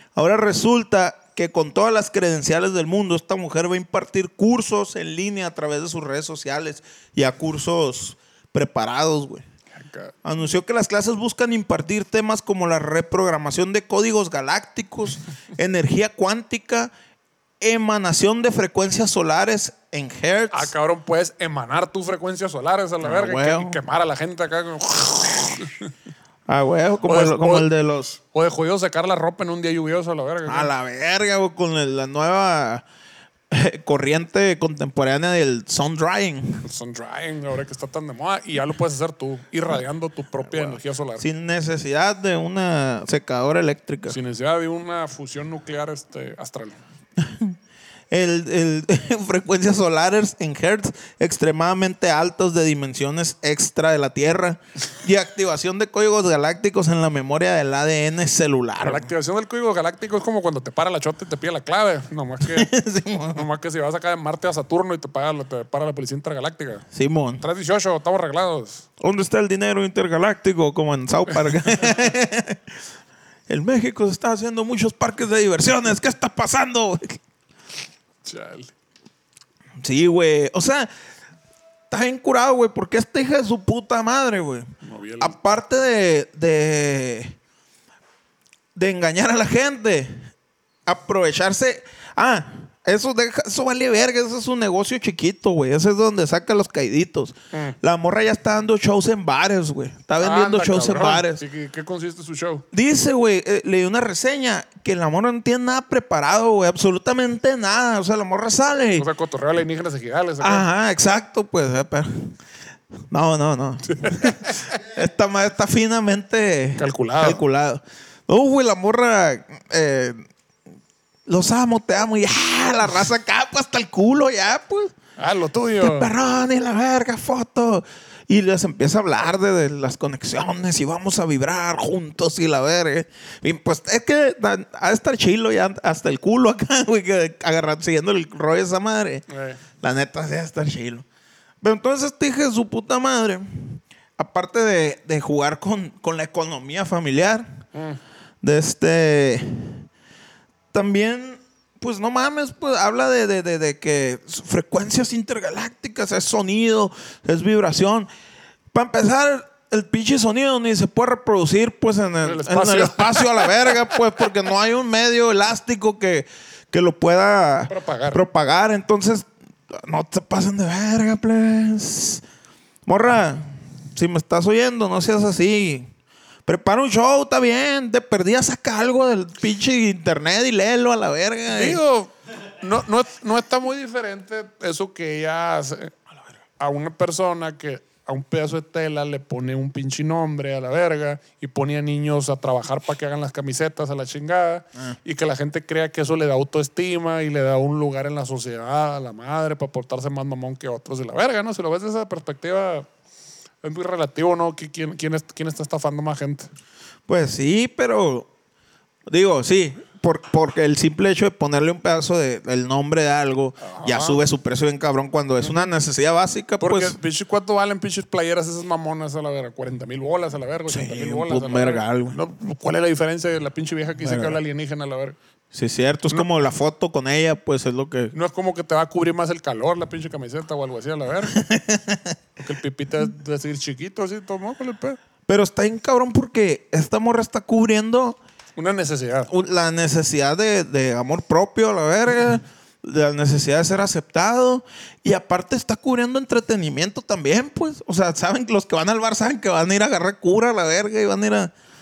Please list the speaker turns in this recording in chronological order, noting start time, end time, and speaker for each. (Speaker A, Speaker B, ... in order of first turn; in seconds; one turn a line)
Speaker A: 0.1-9.4
Speaker B: 9.7-10.1
Speaker A: 10.2-16.9
Speaker A: 17.6-20.7
Speaker B: 20.5-25.9
Speaker A: 23.0-23.8
Speaker A: 26.5-28.2
Speaker B: 27.0-27.7
Speaker B: 28.3-30.7
Speaker A: 30.5-32.8
Speaker A: 33.5-36.7
Speaker B: 36.6-41.3
Speaker A: 40.5-44.2
Speaker B: 44.1-46.8
Speaker A: 47.2-47.6
Speaker A: 48.1-59.1
Speaker B: 58.8-62.7
Speaker A: 62.4-63.5
Speaker B: 63.3-66.8
Speaker A: 66.9-67.4
Speaker B: 67.4-68.8
Speaker A: 69.0-72.6
Speaker A: 73.5-77.2
Speaker B: 78.2-78.7
Speaker A: 79.8-80.9
Speaker A: 81.9-87.3
Speaker B: 84.8-85.3
Speaker A: 88.7-90.3
Speaker A: 90.9-101.4
Speaker B: 100.2-102.6
Speaker A: 102.7-109.1
Speaker B: 109.0-110.7
Speaker A: 110.4-112.4
Speaker A: 113.1-120.3
Speaker B: 113.9-114.7
Speaker B: 116.8-117.4
Speaker A: 121.3-124.9
Speaker B: 125.2-126.1
Speaker A: 125.8-139.2
Speaker B: 139.3-139.6
Speaker A: 139.8-141.0
Speaker A: 141.6-147.7
Speaker B: 147.7-148.0
Speaker A: 148.4-149.8
Speaker A: 150.7-158.1
Speaker A: 158.7-172.2
Speaker B: 162.2-163.9
Speaker B: 167.7-168.2
Speaker A: 172.8-175.9
Speaker A: 176.4-181.8
Speaker B: 181.5-185.9
Speaker B: 186.6-202.9
Speaker B: 203.6-206.5
Speaker A: 207.1-208.3
Speaker A: 209.1-217.0
Speaker B: 213.6-214.2
Speaker B: 215.4-215.7
Speaker B: 216.6-225.2
Speaker A: 220.7-222.2
Speaker A: 224.0-224.4
Speaker A: 225.5-228.1
Speaker B: 228.1-231.4
Speaker A: 231.3-232.2
Speaker B: 232.4-235.0
Speaker A: 235.3-238.2
Speaker B: 238.6-239.3
Speaker A: 239.3-251.5